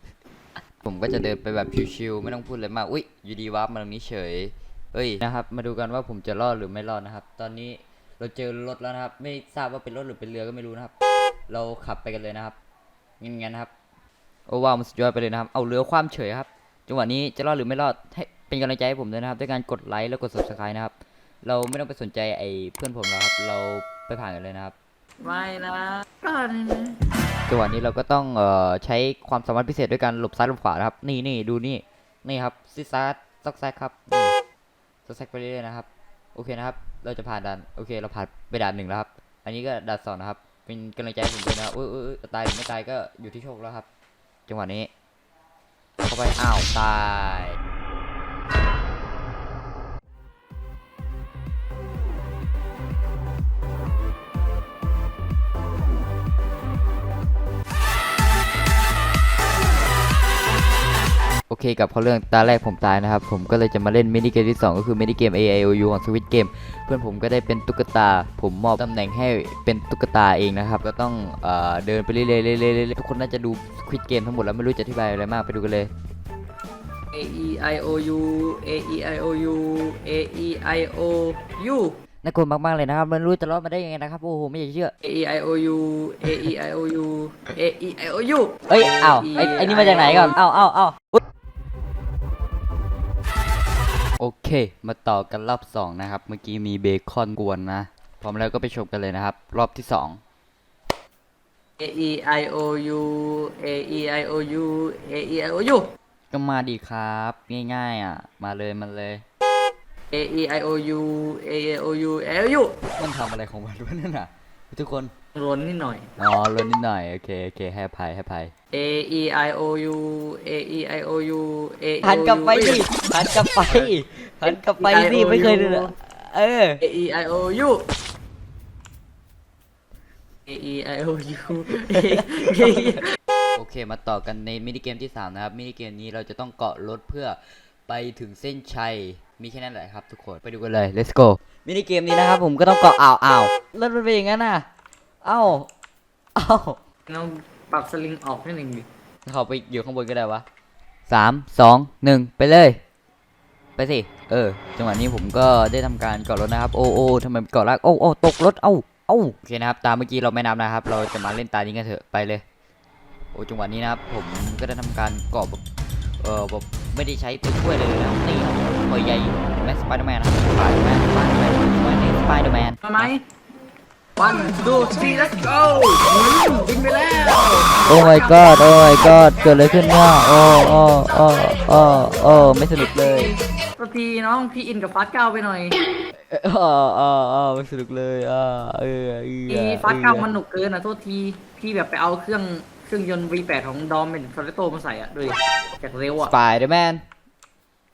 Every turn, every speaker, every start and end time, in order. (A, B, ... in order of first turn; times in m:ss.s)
0:00.8-0:10.9 A
0:11.5-0:12.6 A
0:13.2-0:13.7 A
0:14.5-0:20.9 A
0:21.4-0:24.8 A
0:25.2-0:27.0 B
0:27.5-0:34.3 A
0:35.1-0:43.9 A
0:44.5-0:44.9 A
0:46.0-0:47.6 A
1:01.5-1:15.9 A
1:17.1-1:22.0 B
1:22.2-1:24.9 A
1:25.0-1:30.4 B
1:28.7-1:31.2 A
1:34.2-1:40.2 A
1:41.8-1:45.9 B
1:46.3-1:49.2 A
1:50.1-1:52.8 B
1:52.9-1:55.1 A
1:55.4-1:56.1 B
1:56.2-1:58.5 A
1:58.7-2:02.9 B
2:02.0-2:06.8 A
2:03.7-2:05.9 B
2:06.8-2:07.9 B
2:10.5-2:13.1 B
2:12.6-2:13.0 A
2:13.6-2:24.7 A
2:25.2-2:25.7 A
2:26.4-2:26.8 A
2:27.1-2:28.9 B
2:29.3-2:30.4 A
2:31.1-2:32.8 A
2:33.8-2:42.4 A
2:43.3-2:45.6 A
2:46.2-2:53.1 A
2:52.8-2:53.2 B
2:54.2-2:58.6 B
2:57.9-3:03.4 A
3:03.8-3:05.8 B
3:06.3-3:10.3 A
3:09.5-3:16.3 B
3:16.2-3:17.0 A